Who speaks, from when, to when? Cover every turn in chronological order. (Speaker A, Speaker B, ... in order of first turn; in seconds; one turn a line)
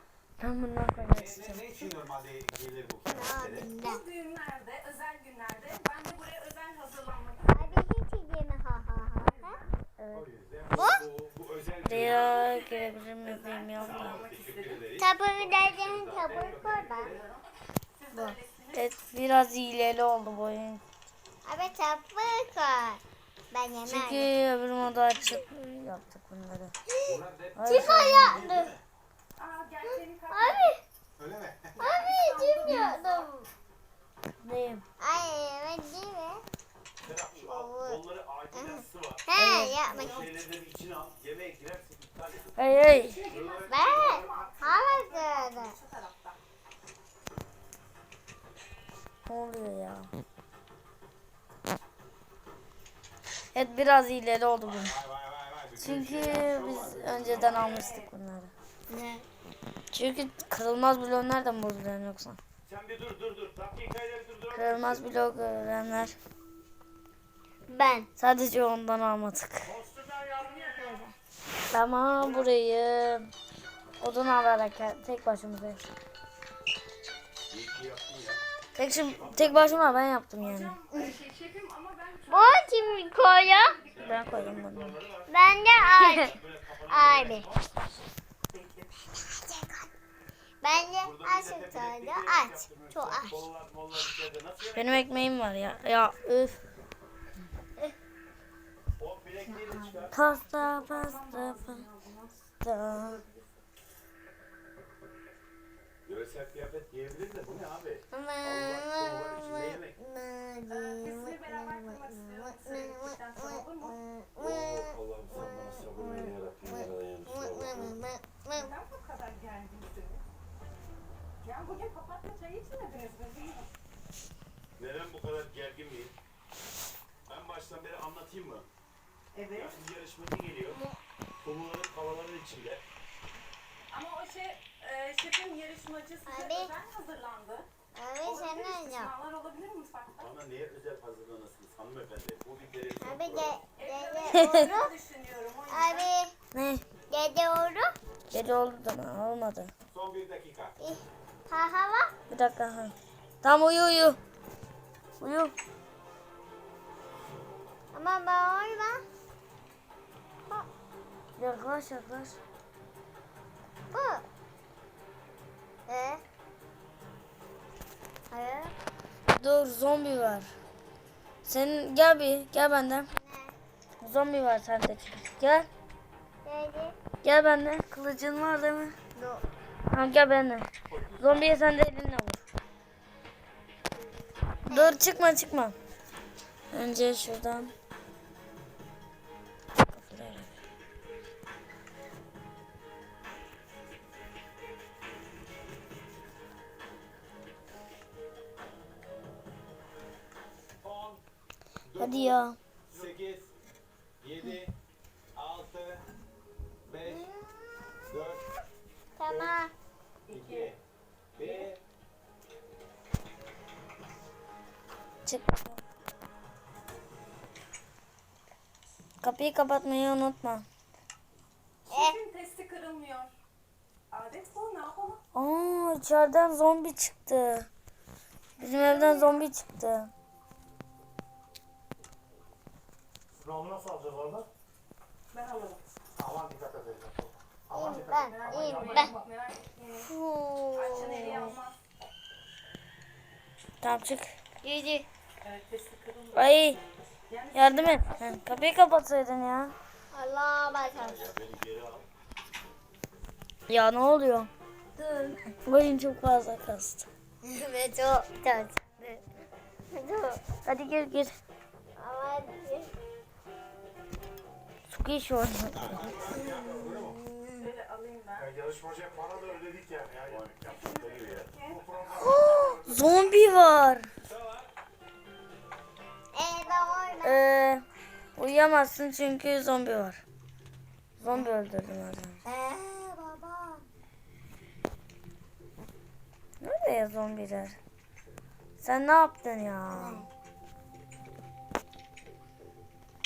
Speaker A: 0.4-1.9
Speaker B: 1.1-3.7
Speaker C: 3.1-4.0
Speaker D: 3.8-7.8
Speaker C: 7.5-9.6
Speaker D: 9.4-9.7
Speaker B: 10.1-12.3
Speaker C: 10.7-11.1
Speaker A: 11.8-14.2
Speaker D: 12.4-14.8
Speaker B: 13.8-17.2
Speaker C: 14.9-17.1
Speaker D: 16.5-17.4
Speaker D: 18.1-18.7
Speaker A: 18.7-20.8
Speaker C: 21.4-24.3
Speaker A: 23.9-26.7
Speaker C: 26.9-28.8
Speaker B: 27.1-28.7
Speaker A: 27.6-28.5
Speaker D: 29.4-30.7
Speaker C: 29.9-30.8
Speaker B: 31.2-31.7
Speaker D: 31.8-33.3
Speaker C: 31.8-33.5
Speaker A: 34.4-34.8
Speaker C: 35.0-36.4
Speaker B: 37.0-39.3
Speaker C: 37.4-40.3
Speaker A: 39.3-39.8
Speaker B: 39.9-42.5
Speaker A: 42.6-43.2
Speaker D: 42.8-46.4
Speaker B: 43.3-44.5
Speaker C: 43.7-45.8
Speaker A: 49.3-50.1
Speaker A: 53.5-55.0
Speaker B: 54.7-57.9
Speaker A: 55.8-58.5
Speaker D: 57.3-57.9
Speaker C: 58.9-59.3
Speaker A: 59.9-62.4
Speaker B: 62.7-65.0
Speaker A: 64.5-66.2
Speaker C: 67.7-68.1
Speaker A: 68.2-69.8
Speaker C: 70.4-71.2
Speaker A: 71.7-73.3
Speaker A: 74.0-75.8
Speaker B: 77.5-78.4
Speaker A: 78.8-80.8
Speaker B: 79.2-79.8
Speaker D: 80.4-82.7
Speaker C: 80.9-81.2
Speaker C: 82.3-83.8
Speaker D: 83.2-84.4
Speaker B: 84.0-85.3
Speaker A: 84.0-85.0
Speaker C: 85.3-87.5
Speaker B: 86.2-87.6
Speaker D: 88.5-88.9
Speaker C: 89.2-89.9
Speaker C: 90.6-93.5
Speaker B: 91.0-95.0
Speaker A: 94.7-96.6
Speaker B: 99.0-100.2
Speaker C: 99.5-100.1
Speaker A: 100.1-101.8
Speaker D: 100.6-102.3
Speaker A: 102.6-103.2
Speaker D: 102.9-103.4
Speaker B: 106.1-109.9
Speaker C: 108.1-118.7
Speaker D: 110.7-113.9
Speaker B: 114.4-118.0
Speaker D: 118.5-120.2
Speaker D: 121.4-123.7
Speaker B: 124.8-126.1
Speaker B: 127.3-128.7
Speaker B: 129.5-130.8
Speaker C: 130.7-131.0
Speaker B: 131.4-132.8
Speaker D: 133.9-137.7
Speaker C: 136.3-136.7
Speaker C: 137.9-139.1
Speaker D: 138.2-140.2
Speaker B: 140.2-143.6
Speaker C: 143.0-144.9
Speaker D: 143.8-146.1
Speaker A: 144.3-144.7
Speaker C: 145.7-146.3
Speaker A: 146.5-146.8
Speaker C: 147.1-147.9
Speaker A: 148.3-149.7
Speaker B: 149.9-150.7
Speaker C: 150.8-152.1
Speaker A: 152.3-154.2
Speaker A: 155.2-155.5
Speaker C: 157.9-159.0
Speaker A: 161.4-162.4
Speaker C: 163.9-164.2
Speaker C: 165.9-166.2
Speaker C: 168.3-168.7
Speaker A: 169.3-170.5
Speaker A: 171.4-173.1
Speaker C: 173.1-173.6
Speaker A: 174.0-175.7
Speaker C: 176.4-177.0
Speaker A: 177.2-178.9
Speaker C: 179.2-179.5
Speaker A: 179.9-180.7
Speaker B: 180.9-181.5
Speaker A: 181.2-182.4
Speaker C: 184.7-185.0
Speaker A: 184.7-185.8
Speaker A: 186.7-187.7
Speaker A: 189.9-190.5
Speaker B: 200.8-201.2
Speaker B: 201.9-202.3
Speaker A: 201.9-202.6
Speaker B: 202.9-203.5
Speaker B: 204.2-204.7
Speaker B: 205.4-206.0
Speaker B: 206.9-207.2
Speaker C: 207.0-207.9
Speaker B: 208.1-208.4
Speaker C: 209.2-209.7
Speaker D: 210.3-210.7
Speaker B: 210.4-210.8
Speaker B: 211.4-211.8
Speaker A: 215.2-215.8
Speaker A: 219.2-220.7
Speaker C: 221.9-222.2
Speaker D: 221.9-223.3
Speaker D: 224.1-225.2
Speaker A: 225.3-227.7
Speaker A: 228.6-230.1
Speaker E: 233.5-234.4
Speaker D: 235.3-235.8
Speaker E: 236.2-237.3
Speaker C: 237.7-239.2
Speaker E: 237.8-238.2
Speaker D: 238.3-240.0
Speaker C: 240.0-241.6
Speaker D: 240.8-241.7
Speaker A: 243.8-244.3
Speaker C: 244.6-245.1
Speaker D: 245.4-246.4
Speaker A: 246.3-246.8
Speaker D: 247.3-248.2
Speaker A: 247.5-249.7
Speaker C: 250.1-251.3
Speaker B: 251.0-252.0
Speaker A: 253.7-254.5
Speaker C: 255.0-255.4
Speaker A: 255.7-257.1
Speaker C: 257.4-259.2
Speaker C: 259.9-260.4
Speaker A: 260.6-261.3
Speaker C: 262.0-263.0
Speaker A: 264.9-266.2
Speaker B: 265.8-267.2
Speaker C: 266.0-267.7
Speaker D: 267.6-268.5
Speaker E: 268.6-270.2
Speaker B: 270.2-271.5
Speaker D: 270.7-271.9
Speaker A: 272.2-274.1
Speaker C: 272.4-272.8
Speaker B: 274.3-274.7
Speaker C: 276.3-277.4
Speaker A: 277.2-277.8
Speaker A: 278.4-280.2
Speaker A: 281.2-282.4
Speaker C: 282.4-283.8
Speaker A: 286.6-287.8
Speaker A: 288.8-290.2
Speaker C: 289.9-290.3